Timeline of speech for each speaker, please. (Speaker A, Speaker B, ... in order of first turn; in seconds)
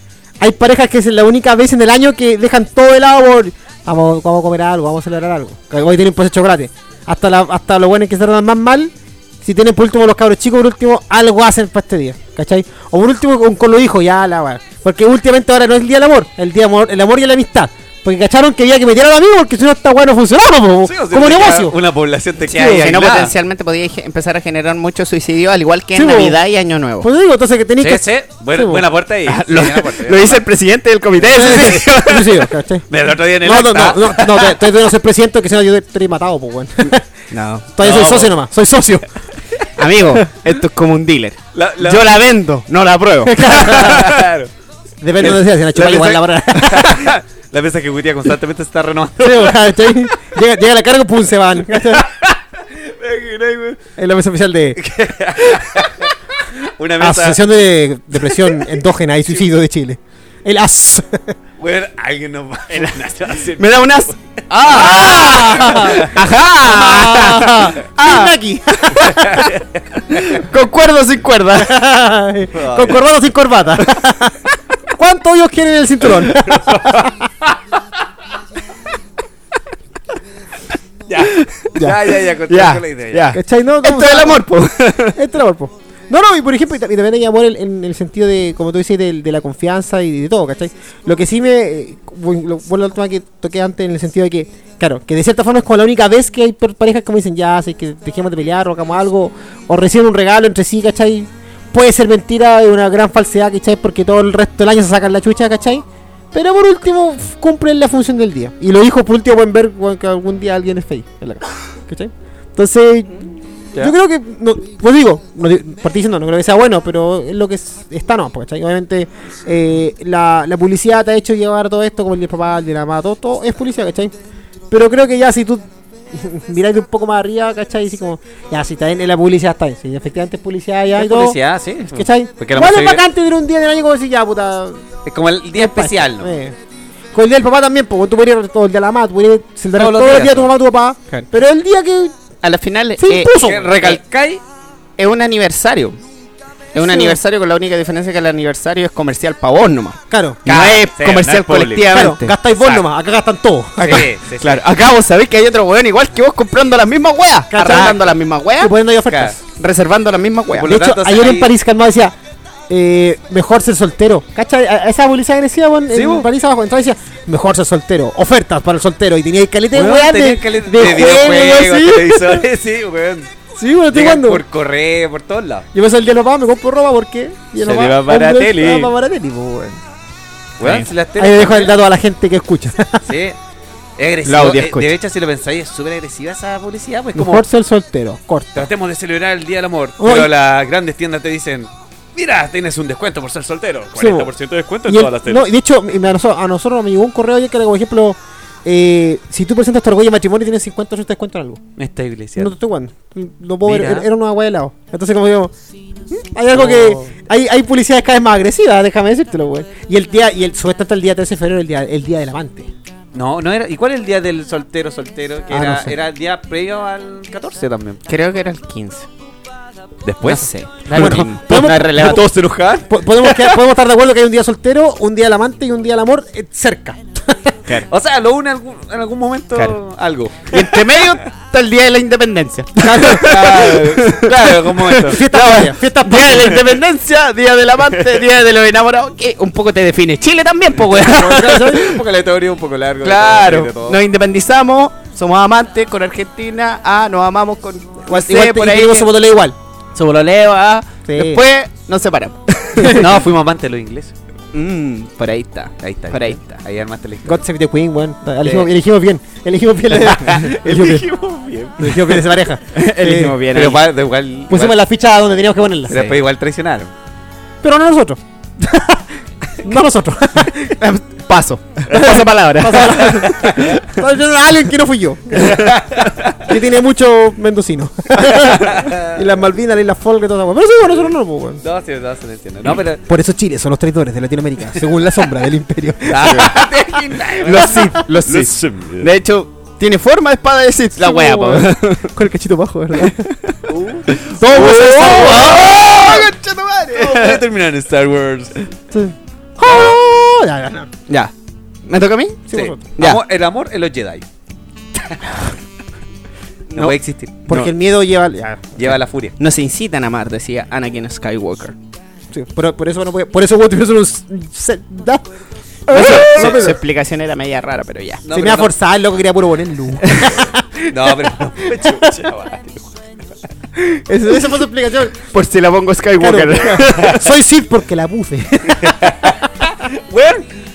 Speaker A: 0.4-21.7, 22.5-22.9, 25.9-26.4, 27.0-28.8, 31.3-32.9, 33.4-37.0, 37.7-39.2, 43.2-44.2, 45.0-47.1, 49.2-52.1, 54.0-54.8, 57.0-61.3, 64.7-69.5, 71.5-74.4, 74.9-77.2, 81.8-82.0, 83.3-84.5, 85.1-113.2, 113.7-124.1, 124.7-131.4, 131.9-134.8, 135.5-136.6, 137.1-142.1, 143.0-143.8, 146.8-147.2, 150.1-150.6, 151.9-154.1, 157.5-158.0, 158.6-159.4, 160.6-162.1, 162.7-172.5, 173.6-174.4, 175.7-179.8, 181.2-183.1, 187.1-188.7, 190.0-190.3, 193.9-194.3, 194.8-201.6, 202.4-205.5, 206.2-212.7, 215.5-215.9, 220.9-222.3, 222.8-227.6, 232.8-233.3, 235.0-236.7, 241.0-242.0, 248.1-249.6, 251.1-251.4, 252.8-253.1, 257.2-261.1, 261.8-263.4, 264.5-266.1, 267.6-270.8, 271.9-275.7, 276.4-281.6, 283.1-286.6, 290.9-293.3, 294.4-296.2, 298.9-300.9, 302.5-302.8, 307.5-308.9, 312.3-315.2, 315.9-316.8, 318.3-320.9, 323.9-325.2, 326.2-329.4
Speaker B: 20.8-23.3, 27.8-30.4, 31.2-34.7, 37.8-38.4, 41.5-42.2, 43.4-44.5, 45.2-50.0, 51.7-53.8, 54.8-57.4, 58.1-58.7, 61.6-64.1, 64.6-66.2, 69.0-70.4, 72.5-73.0, 76.2-77.5, 81.1-83.3, 130.9-133.0, 135.0-136.4, 139.7-140.5, 143.3-144.4, 150.5-152.0, 152.6-152.9, 153.8-154.6, 159.1-159.4, 160.6-161.5, 165.9-166.3, 169.7-173.3, 173.9-175.7, 177.6-178.9, 180.6-181.8, 183.1-183.3, 184.0-187.4, 188.6-195.5, 201.8-202.5, 203.6-204.1, 206.5-207.1, 213.1-218.0, 220.0-223.6, 227.9-231.1, 232.8-235.3, 240.9-244.0, 252.8-254.1, 255.8-257.4, 260.0-262.3, 263.4-264.8, 265.9-266.9, 275.5-276.5, 278.3-279.2, 281.6-283.0, 286.1-289.1, 293.7-296.3, 296.9-298.7, 302.5-304.2, 306.7-307.3, 308.8-309.4, 315.9-316.7, 318.2-318.7, 320.9-322.9, 326.7-327.1, 328.7-330.5
Speaker C: 22.7-27.1, 29.2-32.2, 37.3-37.7, 39.8-43.7, 63.5-68.3, 70.1-71.8, 81.2-81.5, 82.5-85.2, 142.4-143.9, 145.0-146.0, 146.7-152.3, 153.8-158.7, 159.6-160.7, 184.2-184.9, 218.1-219.1, 220.2-222.2, 230.4-241.8, 243.0-249.1, 249.9-253.1, 254.5-256.6, 262.7-263.8, 270.6-273.8, 275.4-275.8, 286.2-286.7, 287.3-292.1, 293.0-297.4, 301.1-301.3, 301.9-302.4, 306.7-307.7, 309.4-311.8, 315.9-318.2, 320.0-320.4, 325.3-327.2